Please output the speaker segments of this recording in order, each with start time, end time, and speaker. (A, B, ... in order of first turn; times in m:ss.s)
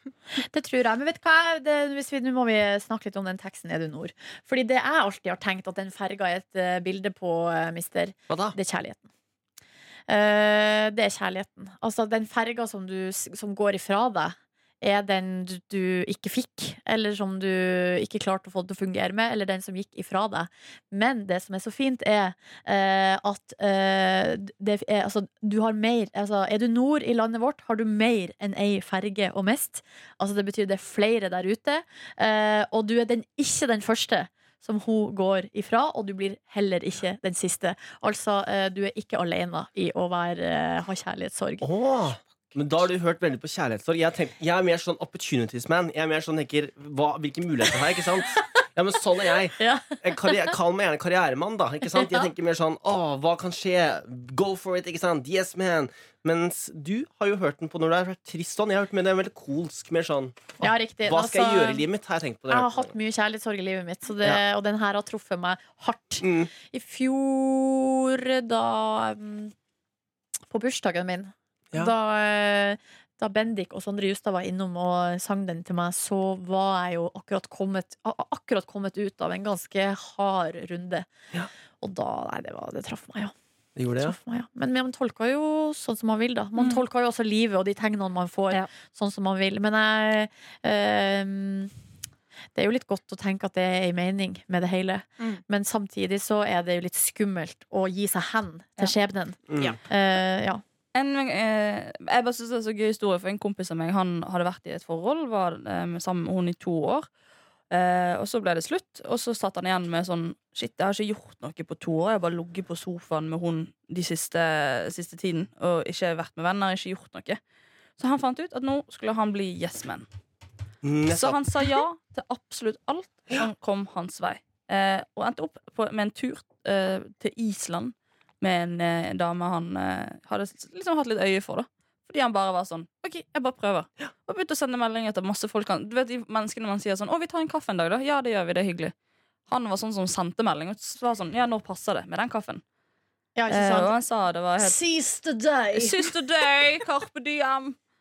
0:00.4-0:09.1 A
0:08.3-0:08.6 B
0:10.1-0:41.7 A
0:41.6-1:02.9 B
0:49.6-0:50.6 A
0:51.9-0:52.3 A
1:00.6-1:01.9 A
1:02.5-1:09.5 A
1:06.2-1:06.5 B
1:10.5-1:21.1 A
1:21.8-1:23.3 A
1:23.8-1:24.2 B
1:24.0-1:31.7 A
1:32.6-1:40.6 A
1:39.5-1:39.8 B
1:40.9-1:47.1 C
1:47.7-1:57.4 C
1:58.0-2:00.1 C
2:00.8-2:01.4 B
2:01.1-2:18.9 C
2:19.5-2:22.6 C
2:23.4-2:23.9 A
2:23.5-2:24.8 C
2:24.6-2:26.2 A
2:25.7-2:27.8 C